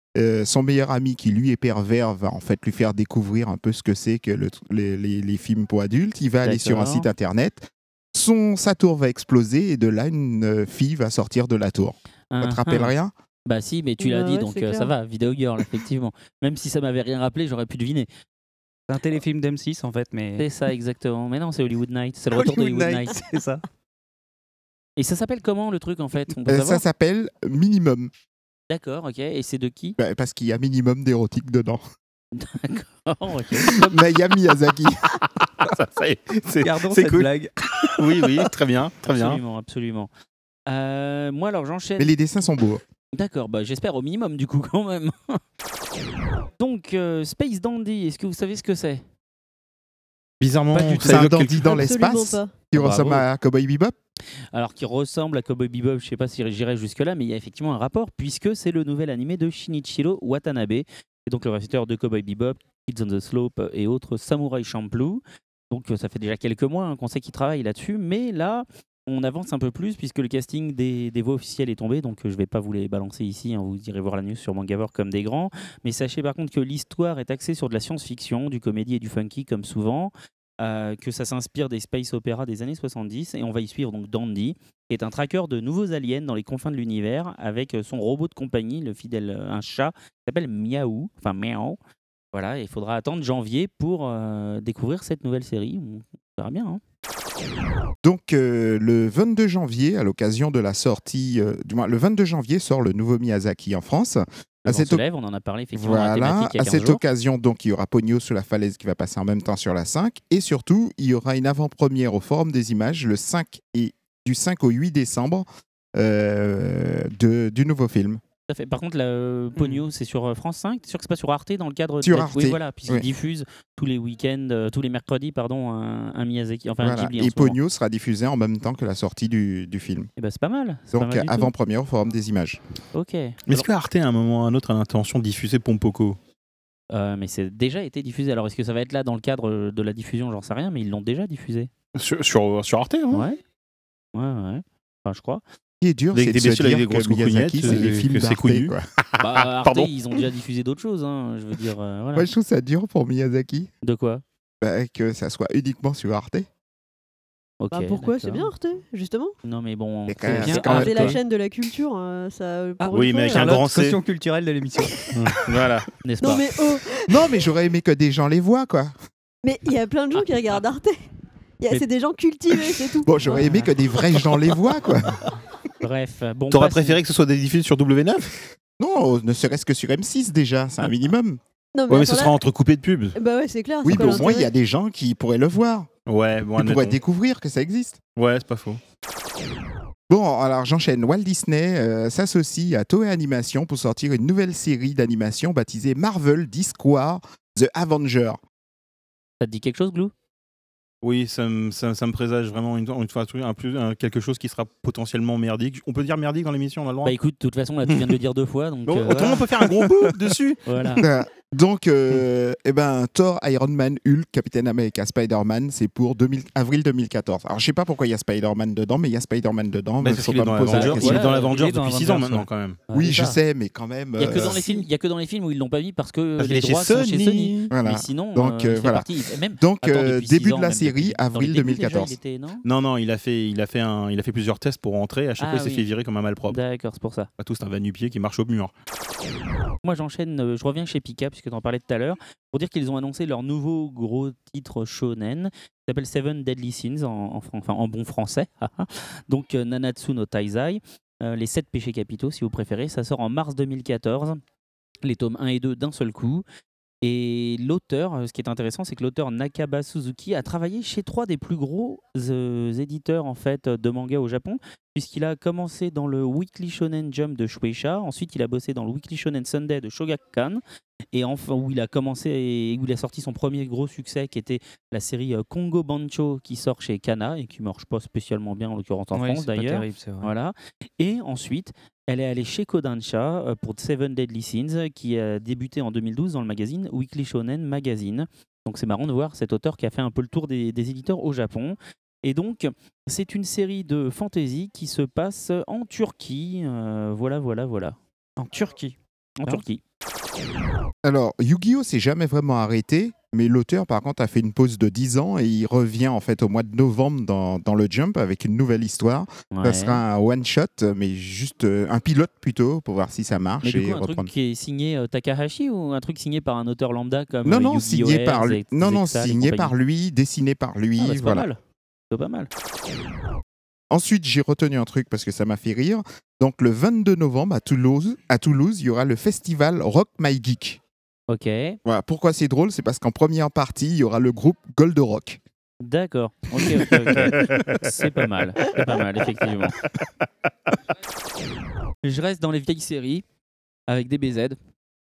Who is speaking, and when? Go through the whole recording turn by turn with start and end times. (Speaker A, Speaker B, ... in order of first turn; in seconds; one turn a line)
Speaker A: 0.2-13.1
Speaker B: 6.4-7.1
Speaker B: 12.3-12.9
Speaker B: 13.5-18.1
Speaker C: 14.0-14.9
Speaker D: 18.9-20.4
Speaker B: 20.4-23.4
Speaker B: 25.0-26.8
Speaker A: 26.5-28.1
Speaker B: 28.7-30.0
Speaker A: 30.0-31.8
Speaker B: 32.3-34.0
Speaker A: 33.6-35.0
Speaker E: 35.4-39.4
Speaker D: 36.6-37.5
Speaker B: 39.0-40.1
Speaker B: 40.7-42.1
Speaker A: 42.0-42.8
Speaker B: 43.1-45.4
Speaker B: 46.6-49.0
Speaker E: 50.4-51.9
Speaker A: 50.8-54.0
Speaker C: 51.6-52.5
Speaker B: 52.7-53.2
Speaker B: 54.5-91.8
Speaker B: 92.3-96.8
Speaker A: 98.0-105.0
Speaker B: 104.7-107.0
Speaker A: 105.7-118.2
Speaker B: 118.5-127.6
Speaker A: 122.0-123.1
Speaker A: 126.8-130.1
Speaker B: 130.2-131.5
Speaker A: 130.9-132.6
Speaker B: 132.9-133.7
Speaker E: 133.5-136.2
Speaker B: 136.9-141.7
Speaker E: 142.0-143.3
Speaker B: 143.1-143.4
Speaker B: 144.2-145.4
Speaker A: 145.8-148.8
Speaker E: 146.1-148.8
Speaker B: 149.2-152.3
Speaker E: 149.4-149.9
Speaker A: 152.2-153.7
Speaker B: 153.8-154.2
Speaker A: 154.6-156.5
Speaker B: 157.6-158.5
Speaker C: 157.7-159.3
Speaker B: 159.4-161.2
Speaker A: 160.1-161.1
Speaker D: 160.3-161.2
Speaker C: 160.7-163.6
Speaker D: 162.8-165.1
Speaker E: 162.9-164.0
Speaker E: 165.1-165.9
Speaker B: 166.0-166.4
Speaker C: 166.2-167.4
Speaker A: 167.1-168.9
Speaker C: 169.4-171.0
Speaker C: 171.6-173.1
Speaker A: 173.0-175.2
Speaker B: 173.3-173.7
Speaker B: 175.8-177.0
Speaker E: 176.5-178.3
Speaker A: 178.8-181.4
Speaker C: 181.8-182.4
Speaker E: 181.9-183.2
Speaker C: 183.2-184.5
Speaker A: 183.8-185.9
Speaker E: 183.8-184.3
Speaker E: 186.1-187.0
Speaker A: 186.6-188.0
Speaker E: 188.2-188.8
Speaker A: 190.1-198.4
Speaker B: 199.4-200.1
Speaker E: 201.0-207.2
Speaker B: 207.0-209.5
Speaker E: 207.8-208.1
Speaker E: 208.9-210.6
Speaker B: 210.7-211.0
Speaker A: 211.0-221.3
Speaker E: 220.0-222.8
Speaker B: 220.7-221.6
Speaker D: 221.0-222.4
Speaker B: 222.9-223.4
Speaker A: 222.9-224.6
Speaker B: 224.2-232.6
Speaker E: 224.3-224.7
Speaker E: 226.4-227.7
Speaker A: 227.7-232.2
Speaker E: 232.7-236.6
Speaker B: 235.4-235.9
Speaker B: 236.5-237.3
Speaker E: 237.4-238.7
Speaker B: 239.8-254.4
Speaker B: 255.0-256.4
Speaker B: 257.0-270.6
Speaker B: 271.1-298.0
Speaker D: 279.1-280.3
Speaker D: 298.4-299.6
Speaker B: 299.4-299.8
Speaker A: 301.0-314.3
Speaker B: 309.5-310.0
Speaker B: 313.6-319.7
Speaker A: 317.4-321.5
Speaker B: 321.0-321.6
Speaker B: 322.1-322.5
Speaker A: 323.9-330.8
Speaker B: 331.3-331.8
Speaker A: 331.9-335.4
Speaker B: 335.8-339.8
Speaker E: 336.8-337.9
Speaker B: 342.0-343.2
Speaker B: 343.9-344.6